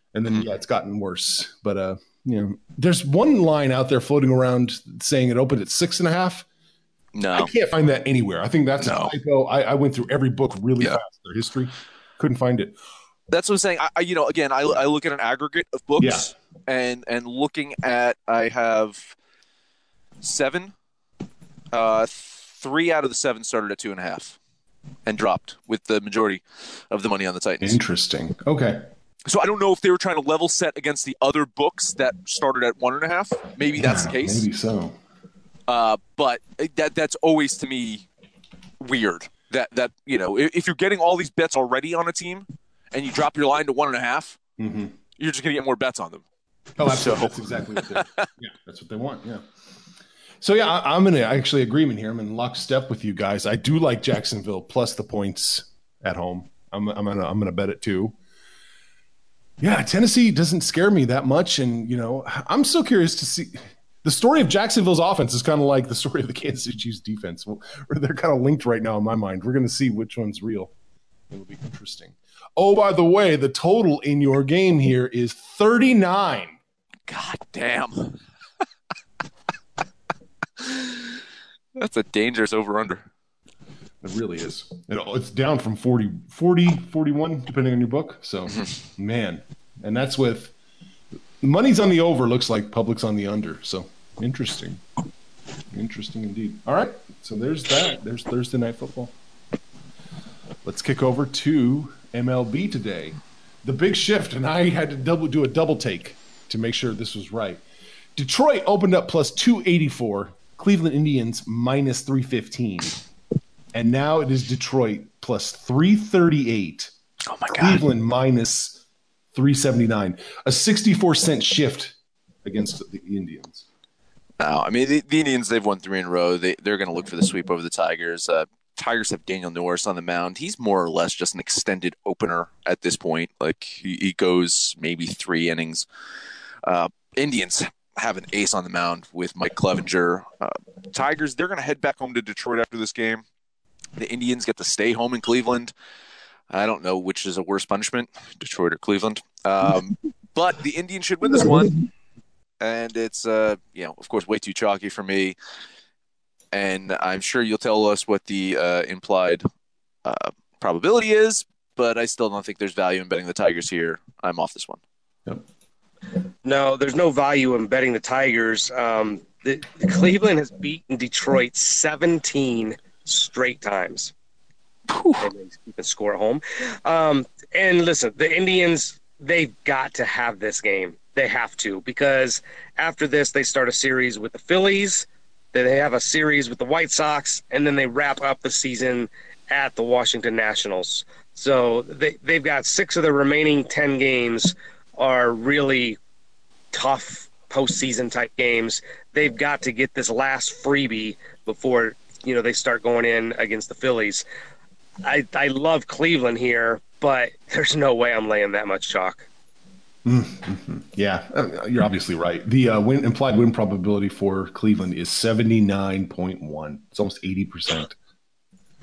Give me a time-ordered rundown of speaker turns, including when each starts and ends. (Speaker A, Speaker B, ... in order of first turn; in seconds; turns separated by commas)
Speaker A: 0.1-6.5, Speaker B: 7.1-7.5, Speaker A: 7.3-12.8, Speaker B: 8.8-9.1, Speaker B: 13.3-19.2, Speaker A: 16.0-16.3, Speaker B: 20.2-20.7, Speaker B: 21.7-24.4, Speaker B: 25.1-27.8, Speaker A: 27.6-28.9, Speaker B: 29.3-34.5, Speaker A: 33.8-35.0, Speaker B: 35.7-38.1, Speaker B: 38.8-44.4, Speaker A: 44.6-45.0, Speaker B: 45.2-46.2, Speaker A: 46.8-49.4, Speaker B: 46.9-48.3, Speaker A: 50.4-58.2, Speaker A: 59.6-70.7, Speaker A: 71.3-76.6, Speaker B: 77.1-78.2, Speaker B: 80.6-81.2, Speaker B: 81.8-83.0, Speaker A: 84.0-90.5, Speaker A: 91.4-94.8, Speaker A: 95.7-99.1, Speaker A: 100.6-107.6, Speaker A: 108.2-113.0, Speaker A: 113.7-116.9, Speaker B: 117.3-117.8, Speaker A: 117.5-118.8, Speaker A: 119.3-123.7, Speaker B: 124.4-135.9, Speaker B: 136.6-143.2, Speaker B: 144.0-145.7, Speaker B: 146.5-151.8, Speaker B: 152.6-155.4, Speaker B: 156.5-159.4, Speaker B: 160.1-164.8, Speaker C: 166.4-174.1, Speaker B: 174.9-175.3, Speaker C: 175.2-196.0, Speaker C: 196.7-204.2, Speaker C: 205.0-209.2, Speaker A: 210.1-218.0